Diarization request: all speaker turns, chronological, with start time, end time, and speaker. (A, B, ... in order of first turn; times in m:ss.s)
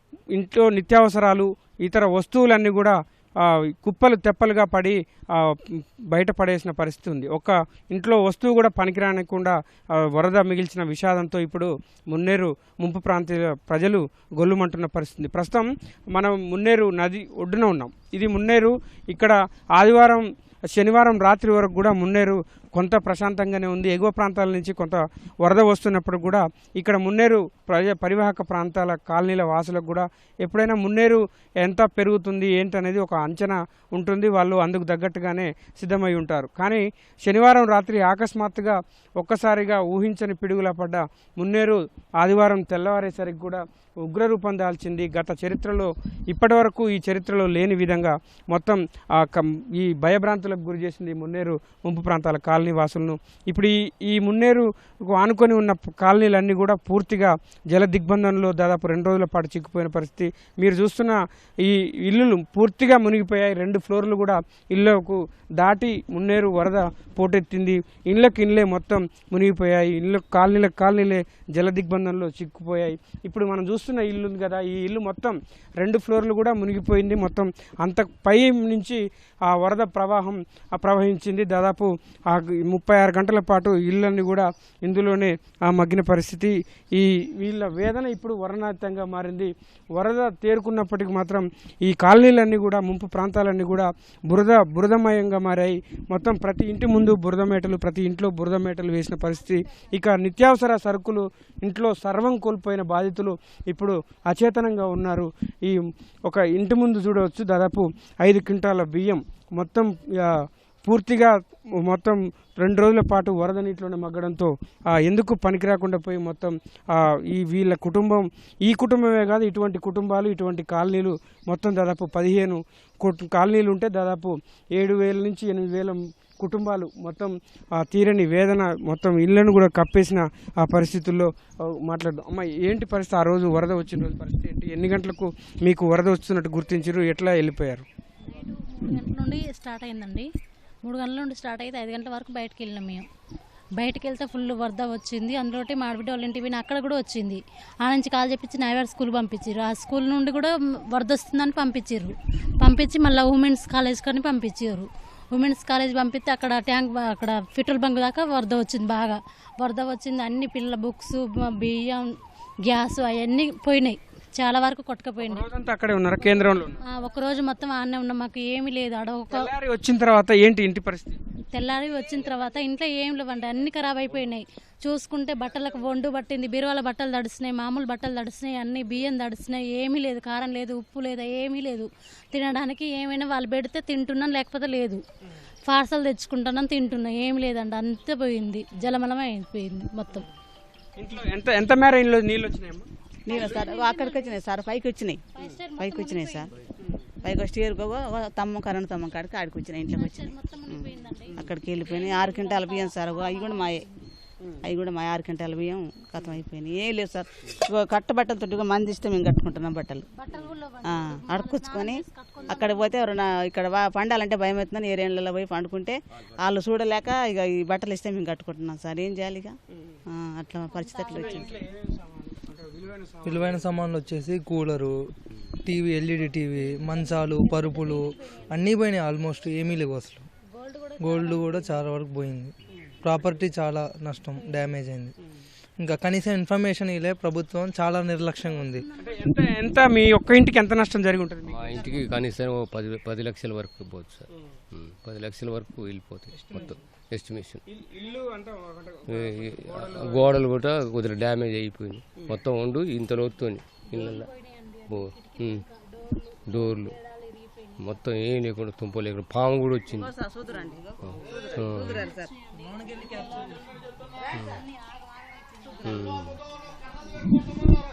0:00.3-2:17.8 A
2:18.3-2:20.3 B
2:20.8-2:23.0 B
2:23.8-2:45.4 B
2:45.2-2:46.8 A
2:46.9-2:49.5 B
2:49.3-2:51.2 A
2:51.5-3:05.0 B
3:05.7-3:10.3 B
3:11.0-3:12.9 A
3:13.2-3:15.2 C
3:13.3-3:14.4 B
3:15.3-3:16.5 B
3:15.8-3:16.5 C
3:17.2-3:23.8 C
3:19.9-3:24.0 B
3:24.6-3:30.1 C
3:30.2-3:33.2 B
3:30.8-3:39.6 C
3:40.1-3:41.5 C
3:40.7-3:41.6 B
3:41.1-3:43.8 A
3:43.2-3:45.0 D
3:45.5-3:50.3 D
3:46.4-3:48.7 B
3:50.5-3:51.8 B
3:51.0-3:55.1 D
3:54.3-3:54.7 B
3:55.8-3:58.8 D
3:58.4-3:59.4 B
3:59.0-4:01.9 A
4:01.5-4:07.6 E
4:07.7-4:10.4 A
4:09.1-4:14.3 E
4:13.9-4:17.9 B
4:14.9-4:15.6 E
4:16.5-4:17.0 E
4:17.8-4:20.1 E
4:19.9-4:22.3 C
4:21.6-4:22.0 E
4:23.2-4:23.6 B
4:25.8-4:26.3 E